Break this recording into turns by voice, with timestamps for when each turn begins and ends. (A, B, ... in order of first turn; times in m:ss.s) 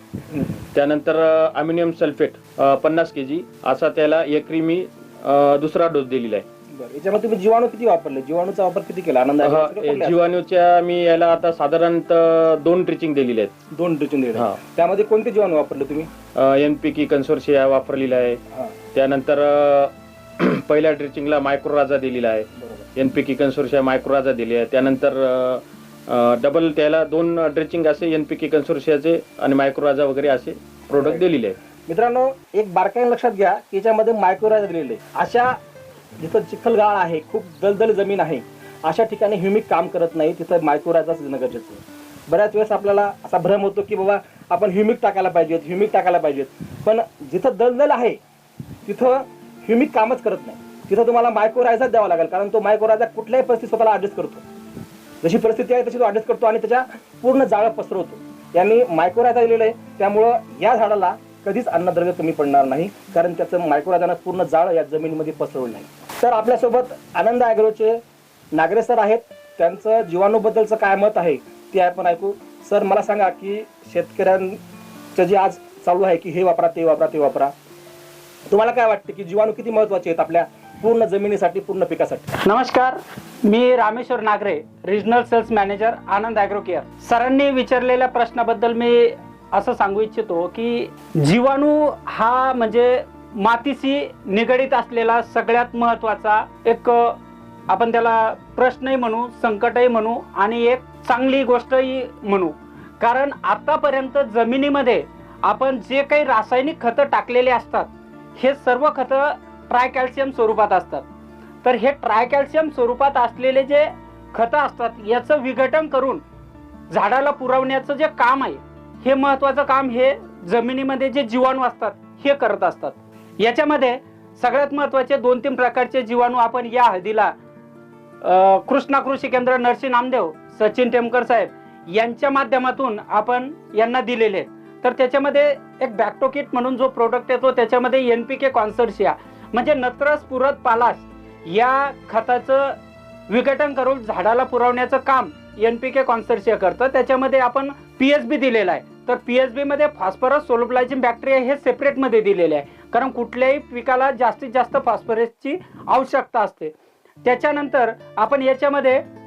0:00.7-0:06.4 A
0:06.7-0:10.2 B
0:09.4-0:13.5 A
0:13.7-0:16.1 B
0:16.4-0:18.4 A
0:18.9-0:31.6 A
0:22.6-0:22.9 B
0:31.0-0:31.2 B
0:31.9-0:35.6 B
0:36.2-0:48.2 B
0:48.9-0:54.4 B
0:55.2-1:08.0 B
1:08.5-1:14.6 B
1:15.2-1:17.5 B
1:18.5-1:22.3 B
1:22.4-1:37.2 C
1:37.7-1:47.9 C
1:48.4-1:51.0 C
1:51.6-1:56.2 C
1:56.9-2:07.3 C
2:08.2-2:22.7 C
2:23.3-2:36.7 C
2:37.2-2:39.0 C